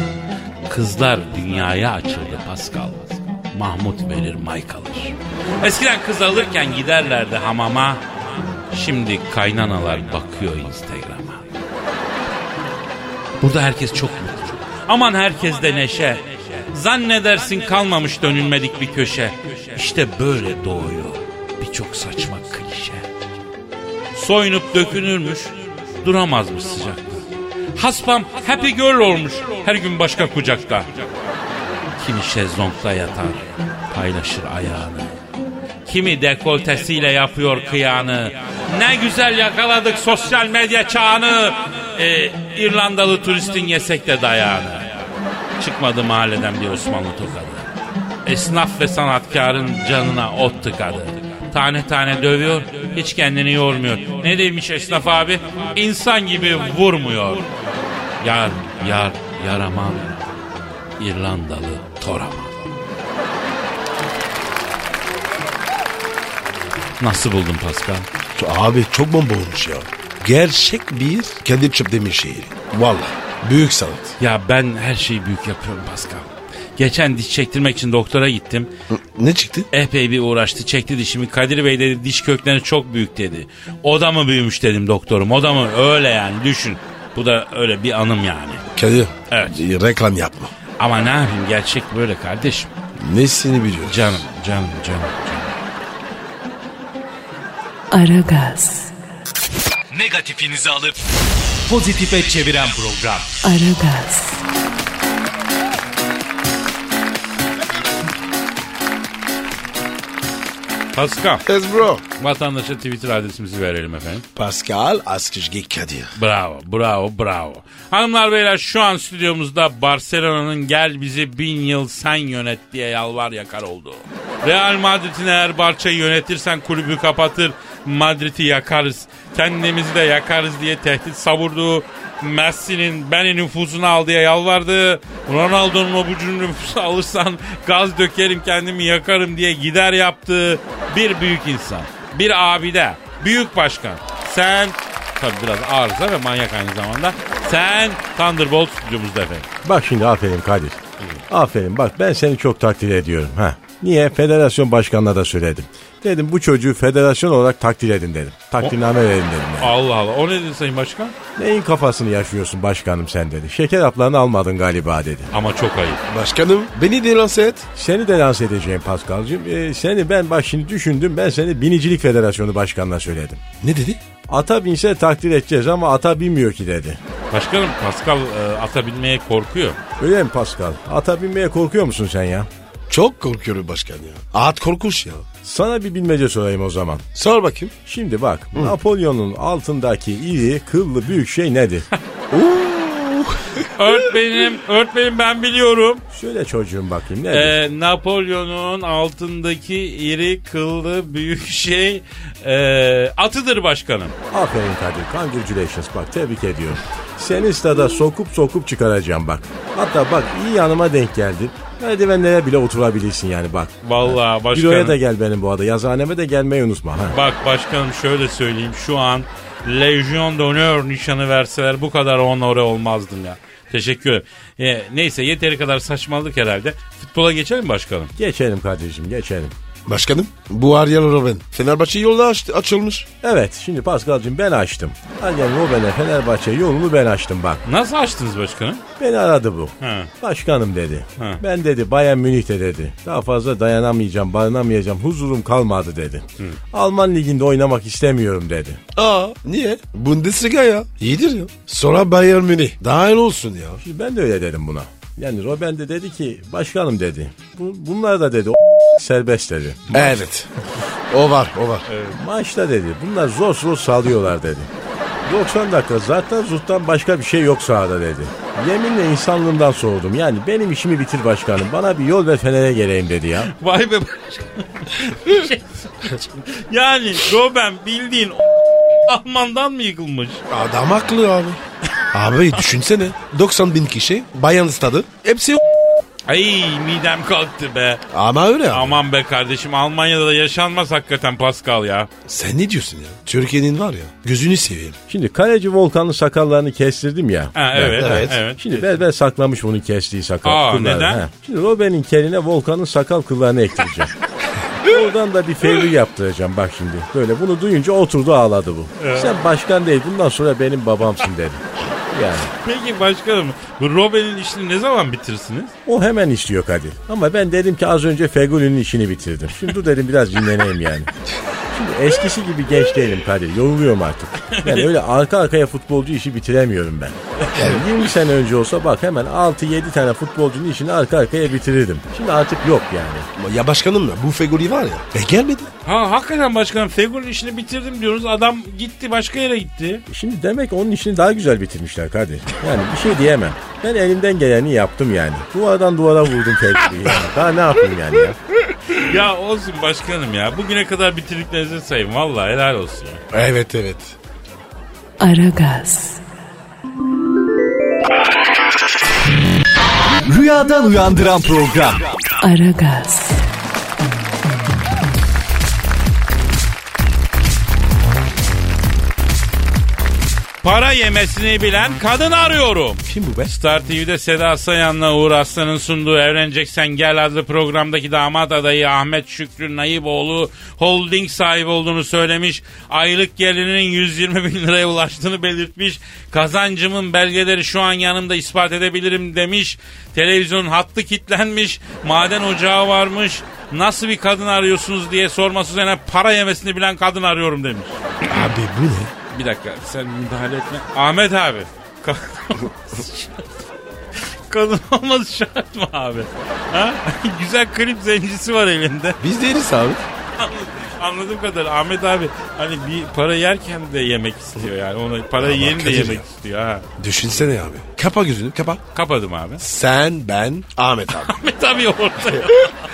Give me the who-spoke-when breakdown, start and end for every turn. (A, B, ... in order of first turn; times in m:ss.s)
0:00.7-0:11.5 A
0:13.4-0:23.1 A
0:24.2-0:27.2 A
0:27.8-0:31.0 A
0:32.0-0:35.2 A
0:35.8-0:45.0 A
0:45.6-0:47.7 A
0:48.2-0:57.5 A
0:58.2-1:00.2 A
1:01.0-1:02.7 A
1:07.0-1:08.1 A
1:08.4-1:14.2 B
1:14.2-1:18.7 A
1:18.9-1:19.7 B
1:19.7-1:28.6 A
1:28.7-1:30.5 B
1:29.3-1:29.6 A
1:30.8-1:32.7 A
1:33.0-1:34.2 B
1:33.8-1:35.6 A
1:37.9-1:38.9 C
1:39.9-1:41.0 D
1:41.7-1:43.4 D
1:43.4-1:44.4 C
1:50.9-1:51.5 A
1:51.5-1:52.0 B
1:52.2-1:54.2 A
1:54.4-1:56.1 B
1:56.2-2:29.5 A
2:29.6-2:30.8 E
2:31.3-2:39.7 E
2:39.6-2:41.2 A
2:41.4-2:45.3 E
2:45.3-2:46.0 A
2:46.1-2:47.7 B
2:47.8-2:53.4 E
2:53.6-2:54.0 B
2:54.3-2:57.0 E
2:57.3-2:59.8 A
3:00.0-3:02.5 E
3:02.9-3:05.3 B
3:05.4-3:07.0 E
3:07.2-3:07.7 B
3:07.9-3:11.9 E
3:12.3-3:13.7 B
3:13.7-3:16.0 A
3:16.1-3:17.6 E
3:17.3-3:24.2 A
3:24.3-3:37.2 E
3:33.8-3:35.0 A
3:37.1-3:48.1 A
3:48.2-3:49.5 E
3:49.9-3:53.1 B
3:53.2-3:57.6 E
3:57.6-3:58.8 A
3:59.0-4:08.8 E
3:59.8-4:00.1 A
4:09.0-4:13.8 B
4:13.8-4:20.0 E
4:19.9-4:20.5 B
4:21.1-4:21.9 B
4:21.9-4:22.2 A
4:22.1-4:24.7 E
4:25.3-4:33.5 E
4:33.4-4:38.4 A
4:39.1-4:40.4 A
4:40.5-4:41.6 B
4:42.1-4:45.6 B
4:46.3-4:48.0 A
4:48.1-4:49.0 B
4:48.7-4:52.1 A
4:52.3-4:55.0 B
4:55.1-5:04.1 E
4:57.6-4:58.9 A
4:57.9-4:58.4 B
5:00.4-5:01.3 A
5:04.8-5:12.5 E
5:09.0-5:09.4 A
5:12.6-5:15.7 A
5:15.9-5:21.1 E
5:21.7-5:33.3 E
5:24.5-5:24.9 A
5:27.5-5:27.8 B
5:33.4-5:35.7 B
5:35.9-5:40.0 A
5:40.1-5:48.4 E
5:48.9-5:53.2 A
5:53.3-5:54.2 B
5:55.2-5:56.2 C
6:00.3-6:02.0 D
6:02.4-6:03.4 C
6:10.6-6:38.0 A
6:13.1-6:13.5 B
6:38.3-6:39.1 B
6:39.3-6:43.6 A
6:44.5-6:49.2 A
6:49.2-6:50.0 B
6:50.4-6:56.8 A
6:55.4-6:56.2 B
6:57.0-6:58.8 B
6:58.9-6:59.6 A
6:59.6-7:01.4 B
7:01.2-7:02.8 A
7:02.3-7:02.7 B